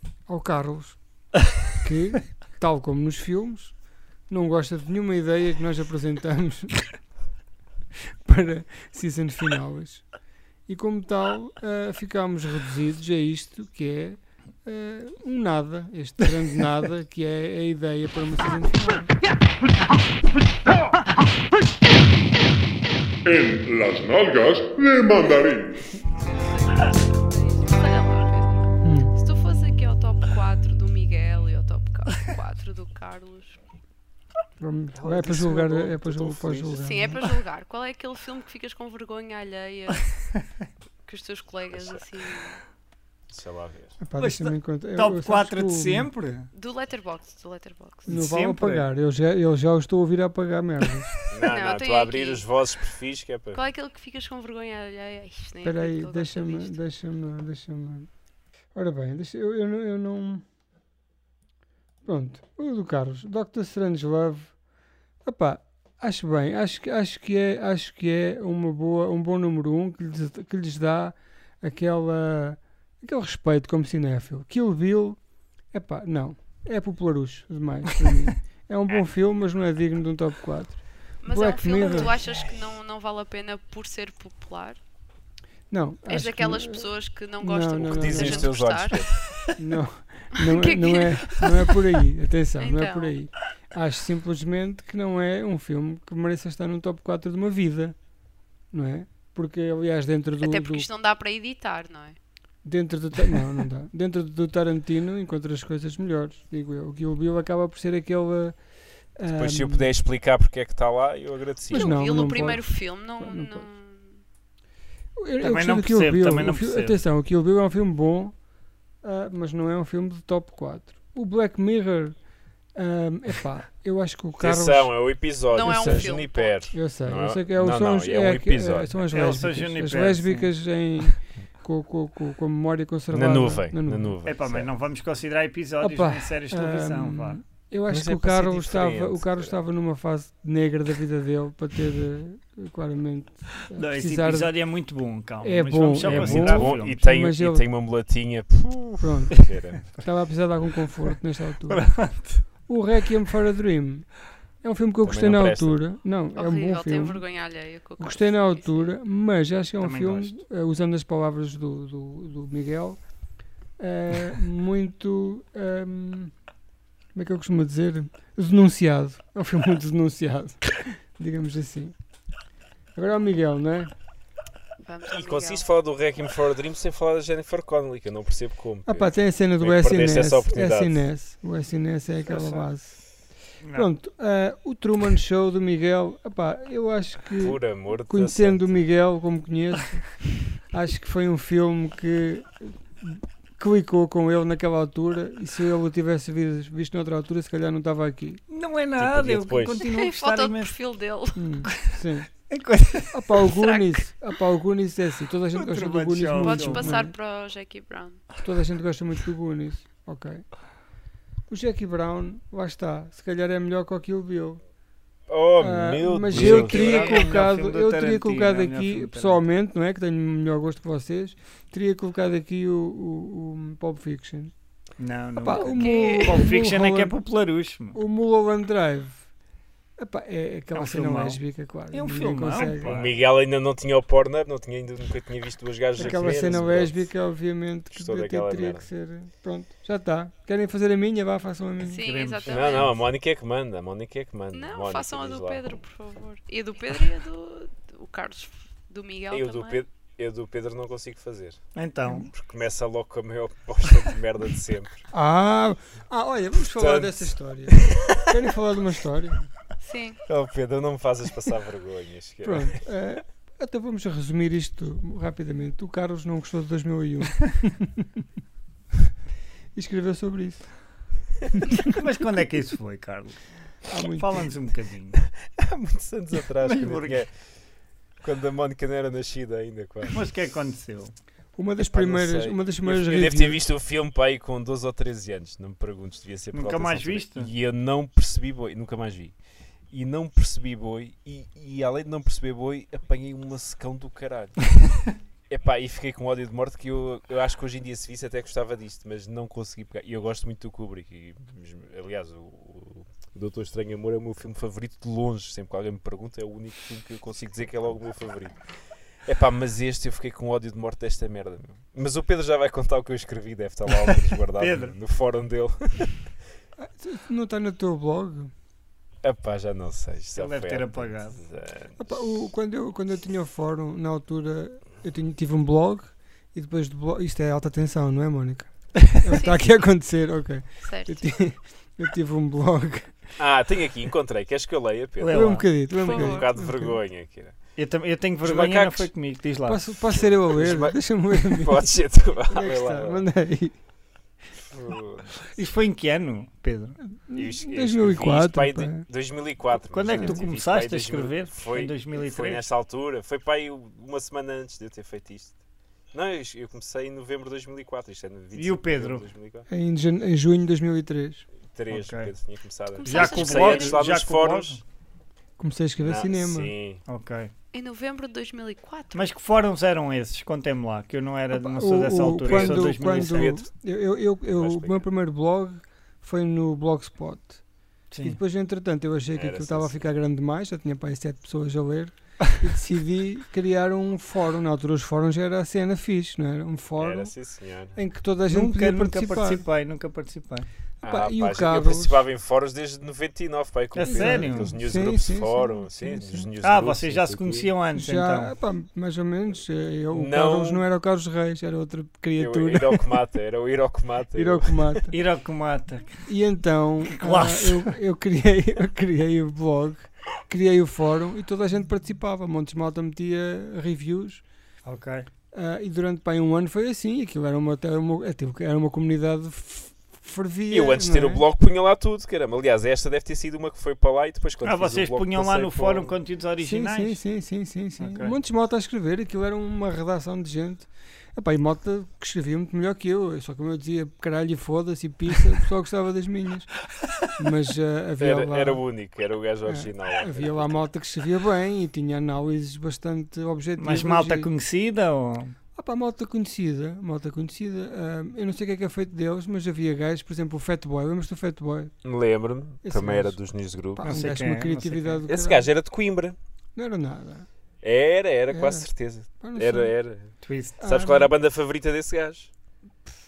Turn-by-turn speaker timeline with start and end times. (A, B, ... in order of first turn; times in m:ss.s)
0:00.2-0:01.0 A
0:01.8-0:03.7 A
0:04.3-0:06.9 A
0:08.2-0:10.0 A
0:10.7-0:19.1 A
0:23.2-0:26.0 B
0:26.1-0:33.6 C
0:28.8-0:29.1 A
0:34.6-0:37.2 A
0:34.9-0:37.0 D
0:36.8-0:40.2 C
0:41.0-0:42.6 C
0:41.7-0:42.0 D
0:43.3-0:44.0 D
0:44.0-0:46.1 A
0:44.2-0:46.5 E
0:46.5-0:48.1 C
0:48.0-0:48.9 E
0:48.1-0:51.1 A
0:51.3-0:53.6 D
0:51.4-0:52.4 C
0:53.5-0:56.8 C
0:55.6-0:58.1 A
0:58.7-1:00.4 A
1:02.0-1:04.5 A
1:05.2-1:15.2 A
1:15.7-1:22.2 A
1:21.2-1:24.8 C
1:25.7-1:26.9 A
1:26.1-1:29.0 C
1:27.4-1:28.5 A
1:27.8-1:29.3 D
1:29.6-1:38.0 A
1:30.4-1:31.7 C
1:32.6-1:33.1 C
1:38.7-1:40.9 A
1:40.4-1:42.2 C
1:42.6-1:48.6 A
1:49.1-1:49.9 A
1:49.3-1:52.0 D
1:51.7-1:54.2 C
1:51.7-1:53.6 A
1:55.2-1:58.4 A
1:55.4-1:57.0 E
1:59.0-2:02.2 A
2:02.7-2:05.0 A
2:04.4-2:08.9 D
2:05.5-2:06.7 C
2:05.6-2:06.2 A
2:06.7-2:14.2 A
2:09.1-2:10.5 E
2:13.1-2:14.7 D
2:14.2-2:17.4 E
2:15.8-2:24.5 A
2:17.9-2:19.6 D
2:23.7-2:27.0 E
2:25.4-2:27.6 A
2:26.0-2:29.8 D
2:29.0-2:34.1 A
2:31.7-2:32.4 E
2:34.6-2:37.2 A
2:35.0-2:35.8 D
2:36.4-2:38.9 C
2:38.0-2:43.0 A
2:39.8-2:40.4 E
2:43.8-2:46.3 A
2:47.1-2:51.9 A
2:53.0-2:53.9 A
2:54.8-2:55.6 C
2:55.1-3:01.0 D
2:58.8-3:03.0 A
3:02.3-3:02.6 E
3:03.6-3:03.9 E
3:03.7-3:10.1 A
3:07.4-3:08.7 D
3:10.7-3:18.4 A
3:18.5-3:20.7 E
3:19.0-3:19.8 D
3:19.8-3:21.5 C
3:21.3-3:22.3 A
3:21.7-3:22.0 E
3:22.5-3:23.2 E
3:23.1-3:27.1 A
3:23.5-3:24.0 C
3:25.5-3:27.0 E
3:26.4-3:28.4 C
3:28.4-3:30.5 A
3:31.5-3:34.6 A
3:35.3-3:37.3 D
3:35.6-3:44.5 A
3:36.3-3:39.4 E
3:45.0-3:48.0 E
3:45.4-3:47.1 A
3:45.5-3:46.5 C
3:47.9-3:49.2 A
3:50.0-3:52.9 A
3:50.7-3:51.4 E
3:51.9-3:53.2 E
3:52.8-3:57.1 D
3:56.0-4:02.0 A
3:57.9-3:58.9 D
4:01.8-4:03.0 C
4:02.0-4:02.9 E
4:02.4-4:05.6 D
4:04.5-4:09.8 C
4:09.3-4:11.6 D
4:11.7-4:12.3 E
4:12.2-4:15.0 D
4:15.1-4:19.4 A
4:16.6-4:18.3 D
4:19.8-4:20.2 C
4:20.2-4:22.8 D
4:22.4-4:28.1 A
4:29.7-4:30.7 A
4:31.8-4:33.4 E
4:33.9-4:34.5 A
4:33.9-4:35.2 E
4:35.6-4:37.4 D
4:36.6-4:37.2 E
4:38.2-4:40.2 D
4:40.1-4:41.1 E
4:41.6-4:43.6 A
4:41.9-4:49.3 D
4:46.5-4:47.5 E
4:49.9-4:54.7 D
4:55.5-5:08.7 D
5:09.2-5:16.3 D
5:14.6-5:15.0 E
5:16.8-5:18.5 A
5:19.2-5:22.2 D
5:20.3-5:21.4 E
5:22.0-5:33.4 A
5:29.3-5:29.7 C
5:30.8-5:31.3 C
5:33.4-5:37.8 D
5:35.2-5:35.7 E
5:35.3-5:37.0 A
5:36.0-5:36.5 C
5:37.8-5:39.8 E
5:38.4-5:39.1 D
5:39.6-5:43.8 A
5:40.1-5:43.2 D
5:44.6-5:45.3 D
5:45.5-5:47.0 E
5:47.0-5:49.0 A
5:47.3-5:55.6 D
5:49.7-5:52.6 E
5:50.1-5:50.4 A
5:56.1-5:59.7 D
5:58.5-5:59.3 E
5:59.7-6:01.4 A
6:01.7-6:04.8 D
6:01.9-6:02.3 E
6:03.0-6:04.0 C
6:03.0-6:04.8 E
6:05.6-6:06.7 A
6:06.0-6:07.0 D
6:07.0-6:07.5 E
6:07.7-6:09.3 C
6:09.1-6:13.6 E
6:11.5-6:17.6 A
6:12.4-6:13.7 D
6:14.6-6:15.0 D
6:18.1-6:18.4 E
6:18.2-6:27.3 A
6:19.3-6:20.0 D
6:27.0-6:28.0 D
6:27.9-6:29.6 A
6:28.5-6:30.7 E
6:31.0-6:32.2 A
6:31.0-6:37.7 D
6:34.0-6:34.7 E
6:34.0-6:36.5 A
6:36.6-6:38.5 E
6:37.9-6:43.1 A
6:40.1-6:40.8 D
6:42.4-6:45.0 D
6:44.3-6:45.1 A
6:45.1-6:46.2 E
6:46.3-6:54.4 A
6:47.2-6:47.8 E
6:54.8-6:55.3 E
6:55.5-7:01.4 A
7:00.7-7:06.1 D
7:04.6-7:07.2 E
7:06.6-7:16.8 A
7:08.0-7:08.4 E
7:17.4-7:18.9 A
7:18.2-7:20.9 D
7:19.6-7:24.5 A
7:23.8-7:25.5 E
7:25.8-7:31.9 A
7:32.0-7:34.0 D
7:32.8-7:33.4 A
7:33.9-7:35.7 A
7:34.0-7:35.2 E
7:35.3-7:36.4 D
7:36.7-7:37.5 A
7:37.8-7:42.5 D
7:38.5-7:39.9 A
7:40.4-7:40.8 E
7:40.8-7:41.3 A